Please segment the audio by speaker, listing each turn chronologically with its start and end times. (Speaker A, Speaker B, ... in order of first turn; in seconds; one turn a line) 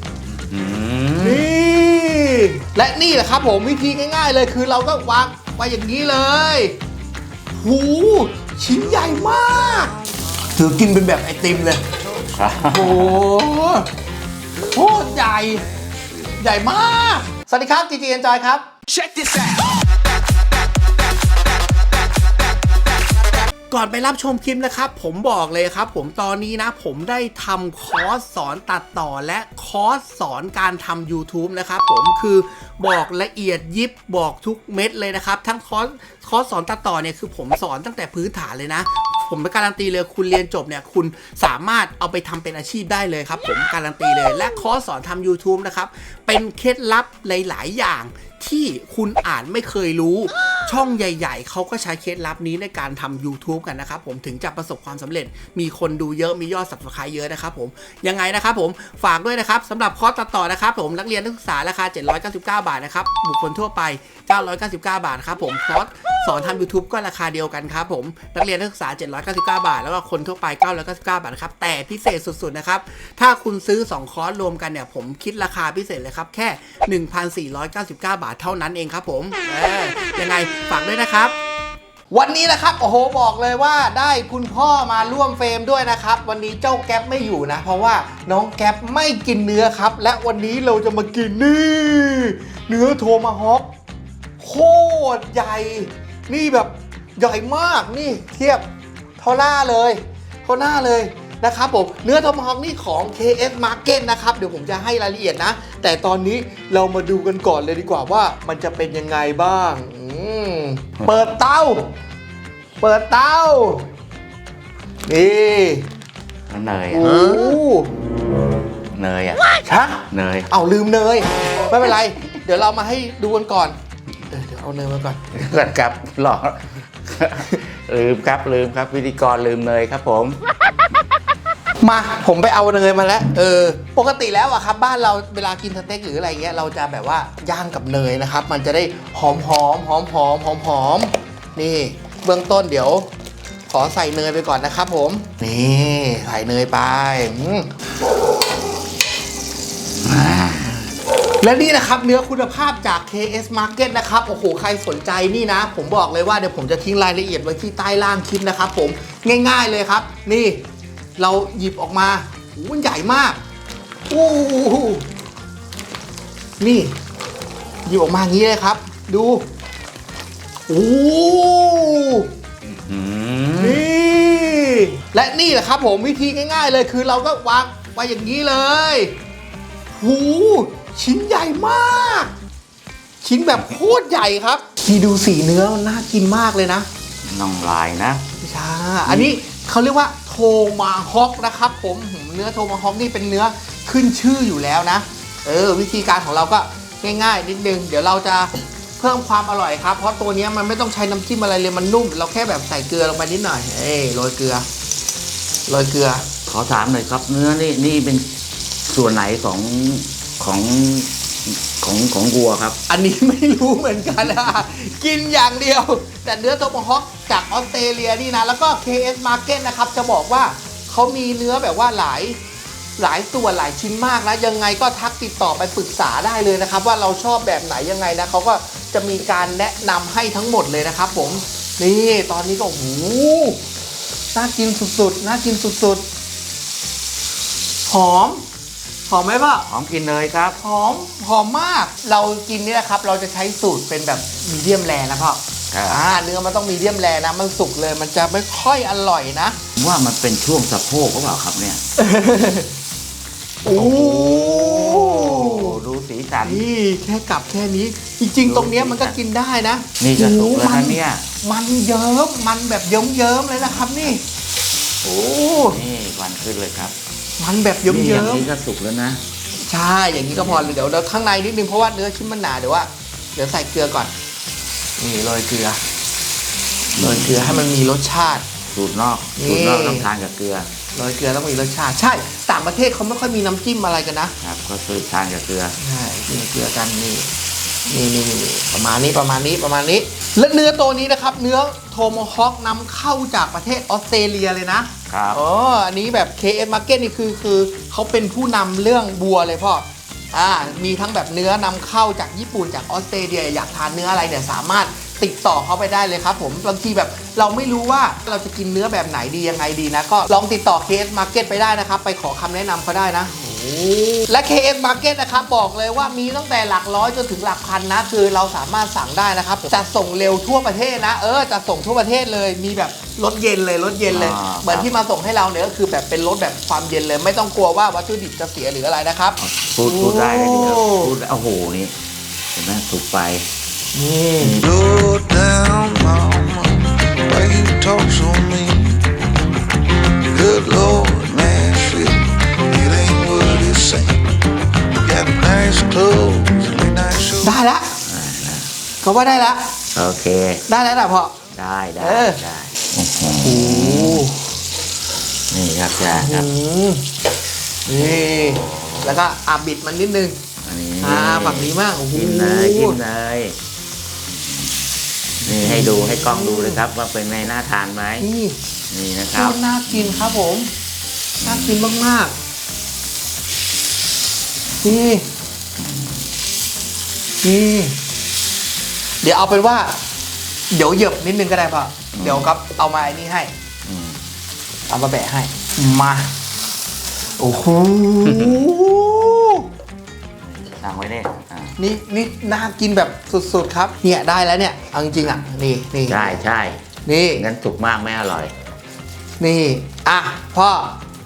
Speaker A: 0.3-1.5
Speaker B: 1.2-6.8
Speaker B: 7.5-9.9
Speaker B: 10.5-11.8
Speaker A: 12.3-13.2
Speaker B: 12.7-13.9
Speaker B: 14.7-15.7
Speaker B: 16.4-18.7
Speaker B: 23.7-81.3
Speaker B: 82.1-93.7
Speaker B: 94.4-98.6
Speaker B: 99.2-111.9
Speaker B: 112.8-113.9
Speaker B: 115.0-115.9
Speaker A: 116.5-117.6
Speaker B: 116.9-117.9
Speaker A: 118.9-119.5
Speaker B: 119.6-123.8
Speaker A: 120.1-120.5
Speaker B: 124.3-125.2
Speaker A: 125.3-130.4
Speaker B: 131.8-143.1
Speaker B: 143.7-147.7
Speaker A: 150.0-150.9
Speaker B: 151.4-160.6
Speaker B: 161.2-163.4
Speaker B: 164.1-165.1
Speaker B: 166.6-166.9
Speaker B: 167.8-169.4
Speaker B: 170.7-172.3
Speaker A: 172.6-173.8
Speaker B: 173.6-179.1
Speaker B: 179.9-182.3
Speaker B: 183.2-186.9
Speaker A: 187.2-188.2
Speaker B: 188.4-204.7
Speaker A: 189.1-189.3
Speaker B: 205.7-206.3
Speaker A: 206.5-208.3
Speaker A: 208.9-212.8
Speaker B: 212.9-222.4
Speaker B: 223.0-233.6
Speaker B: 234.3-236.0
Speaker B: 237.9-238.4
Speaker B: 239.1-239.7
Speaker A: 239.7-240.6
Speaker B: 240.6-249.6
Speaker A: 245.7-246.0
Speaker A: 249.8-251.8
Speaker B: 252.0-252.7
Speaker B: 253.6-255.8
Speaker A: 253.7-256.6
Speaker B: 256.4-264.2
Speaker A: 258.4-259.1
Speaker A: 260.0-261.2
Speaker A: 263.6-264.1
Speaker B: 265.0-265.8
Speaker A: 265.3-266.9
Speaker B: 267.4-268.5
Speaker A: 267.9-269.2
Speaker B: 269.6-274.1
Speaker A: 270.2-270.8
Speaker B: 275.0-275.8
Speaker A: 276.9-277.7
Speaker B: 276.9-278.4
Speaker A: 278.7-280.7
Speaker B: 279.4-280.1
Speaker B: 280.9-284.3
Speaker A: 284.4-285.8
Speaker B: 285.8-287.3
Speaker B: 287.9-331.1
Speaker A: 295.1-295.4
Speaker A: 324.1-324.9
Speaker A: 329.4-331.9
Speaker A: 332.5-333.4
Speaker B: 333.9-334.6
Speaker A: 334.4-334.7
Speaker C: 334.6-339.1
Speaker C: 340.2-344.3
Speaker C: 345.0-347.5
Speaker B: 347.4-347.9
Speaker A: 348.0-348.7
Speaker B: 349.0-349.7
Speaker A: 349.9-350.6
Speaker B: 350.7-351.3
Speaker A: 351.5-354.3
Speaker B: 352.0-352.4
Speaker B: 353.4-354.5
Speaker A: 355.5-356.5
Speaker B: 356.1-357.1
Speaker B: 357.9-360.3
Speaker A: 358.5-359.2
Speaker A: 360.6-363.6
Speaker B: 361.0-363.0
Speaker A: 364.3-364.7
Speaker A: 365.4-368.3
Speaker B: 365.4-366.8
Speaker B: 368.2-368.6
Speaker A: 368.9-370.4
Speaker B: 369.3-370.7
Speaker B: 371.4-372.3
Speaker A: 371.4-372.0
Speaker B: 374.8-375.2
Speaker A: 375.8-376.2
Speaker B: 377.4-377.9
Speaker B: 379.2-380.0
Speaker B: 380.7-383.5
Speaker A: 382.1-382.5
Speaker A: 383.9-384.2
Speaker B: 384.9-386.3
Speaker B: 387.4-389.7
Speaker A: 388.2-388.6
Speaker A: 390.5-391.8
Speaker B: 391.8-396.4
Speaker A: 396.1-396.8
Speaker B: 397.1-397.4
Speaker A: 397.3-398.5
Speaker B: 399.4-401.0